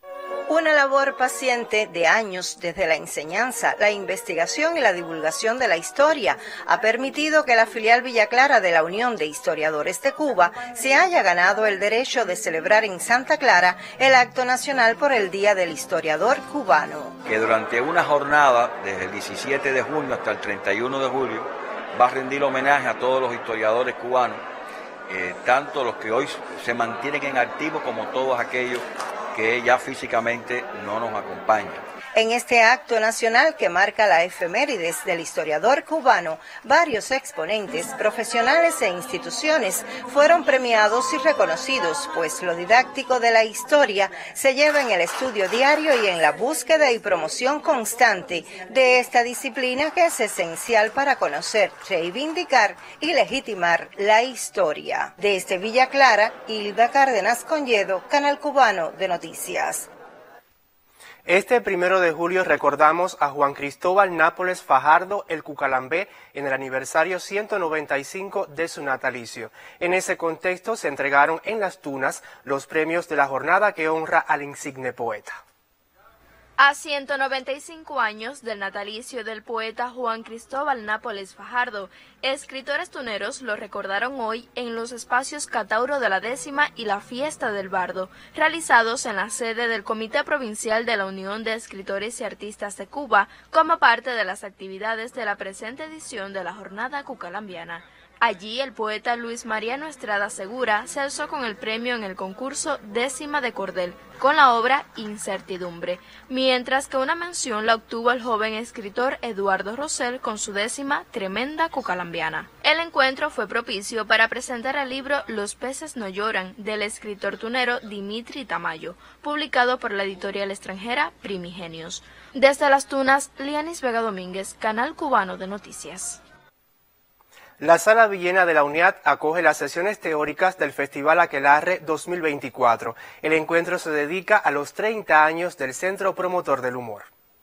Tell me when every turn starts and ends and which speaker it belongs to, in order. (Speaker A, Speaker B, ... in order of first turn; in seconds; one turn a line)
Speaker A: 0.5-17.1
Speaker B: 17.3-24.4
Speaker B: 25.1-31.8
Speaker A: 32.1-59.9
Speaker C: 61.2-75.4
Speaker D: 76.6-126.2
Speaker C: 127.6-137.1